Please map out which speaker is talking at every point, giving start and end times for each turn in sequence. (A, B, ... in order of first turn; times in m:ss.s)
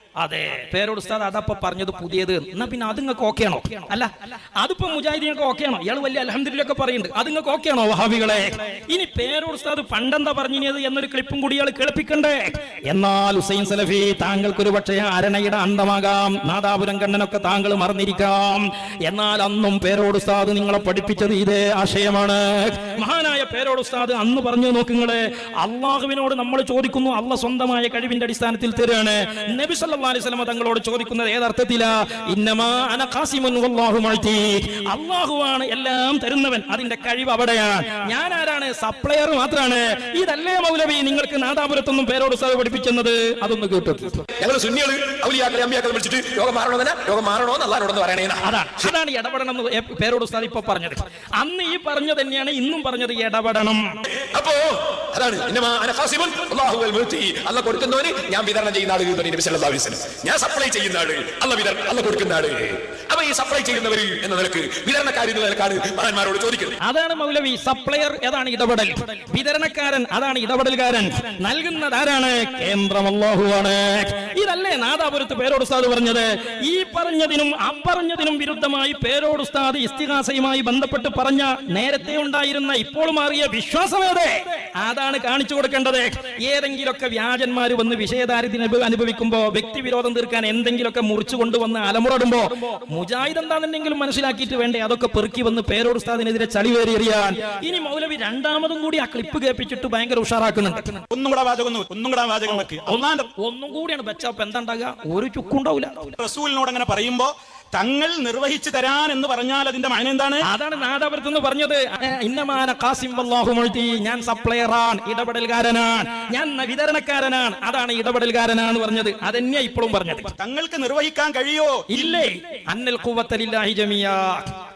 0:00.2-0:44.2 A
0:44.4-0:48.8 B
0:48.4-0:54.0 A
0:54.2-1:06.8 B
1:06.8-1:41.0 A
1:41.1-1:43.3 C
1:42.5-1:46.2 A
1:46.2-1:50.4 C
1:50.4-2:00.3 A
2:00.4-2:02.2 C
2:01.9-2:04.5 A